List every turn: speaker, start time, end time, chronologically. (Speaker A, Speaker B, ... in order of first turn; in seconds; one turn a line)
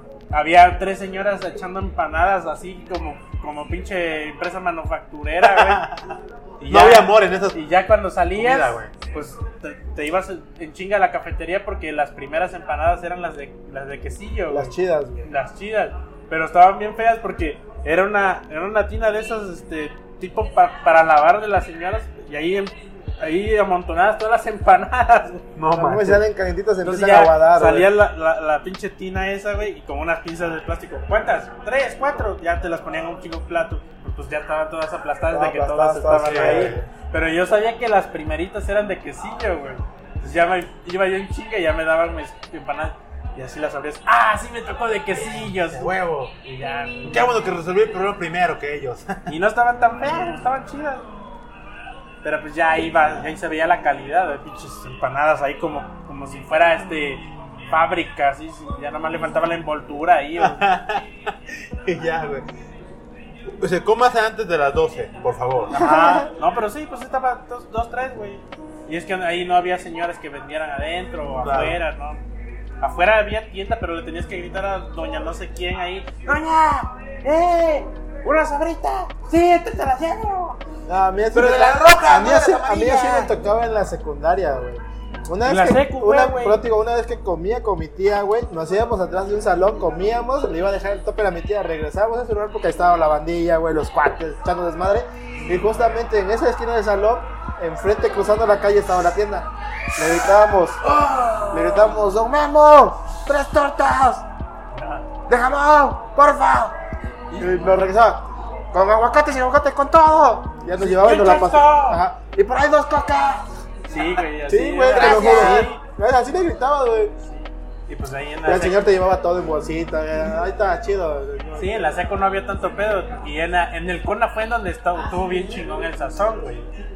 Speaker A: 0.3-5.8
Speaker B: 5.4-7.6
Speaker A: 6.6-25.4
Speaker B: 8.3-8.9
Speaker C: 14.5-15.3
Speaker B: 25.6-26.2
Speaker C: 25.7-27.9
Speaker A: 26.8-45.9
Speaker C: 35.3-36.9
Speaker B: 36.1-36.8
Speaker B: 45.1-46.3
Speaker A: 46.4-47.3
Speaker B: 47.0-49.3
Speaker A: 49.3-51.1
Speaker A: 52.2-60.6
Speaker B: 60.4-62.5
Speaker B: 63.6-66.3
Speaker A: 65.8-72.2
Speaker C: 65.9-66.2
Speaker B: 71.4-71.8
Speaker A: 72.8-80.6
Speaker C: 80.9-100.8
Speaker B: 81.3-83.3
Speaker A: 85.4-86.6
Speaker A: 100.9-101.7
Speaker C: 101.5-104.2
Speaker A: 104.7-105.0
Speaker C: 105.3-106.8
Speaker C: 107.4-113.5
Speaker A: 110.8-112.0
Speaker A: 113.9-115.8
Speaker C: 114.5-117.1
Speaker B: 114.9-115.6
Speaker A: 117.3-118.9
Speaker C: 118.4-121.9
Speaker A: 121.5-126.7